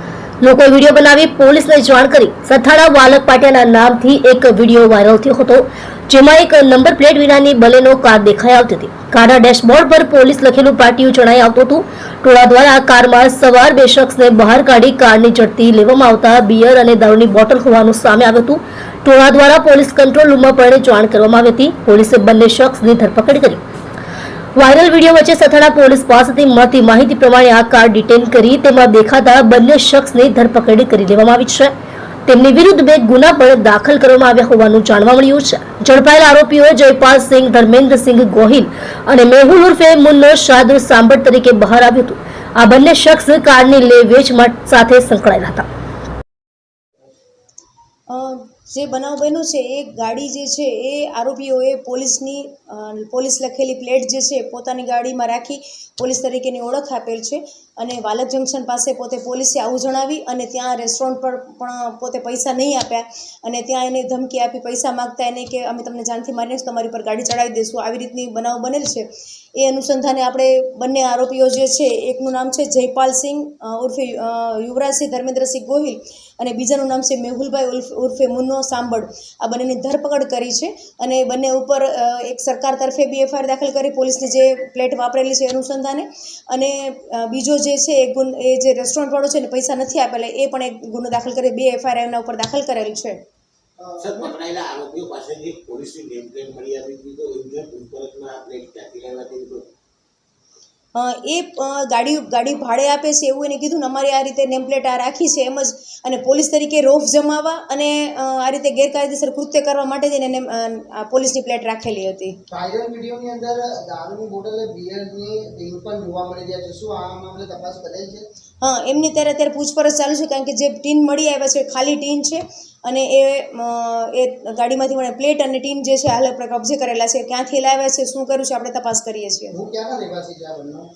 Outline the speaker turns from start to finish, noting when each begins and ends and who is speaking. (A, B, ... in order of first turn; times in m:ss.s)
0:00.4-0:23.6 A
0:24.6-0:31.7 A
0:32.3-0:45.6 A
0:48.1-1:33.2 B
1:33.8-1:34.3 C
1:34.0-1:39.7 D
1:40.9-1:52.4 B
1:52.5-1:58.3 C
1:58.6-2:09.6 B
2:09.5-2:10.9 C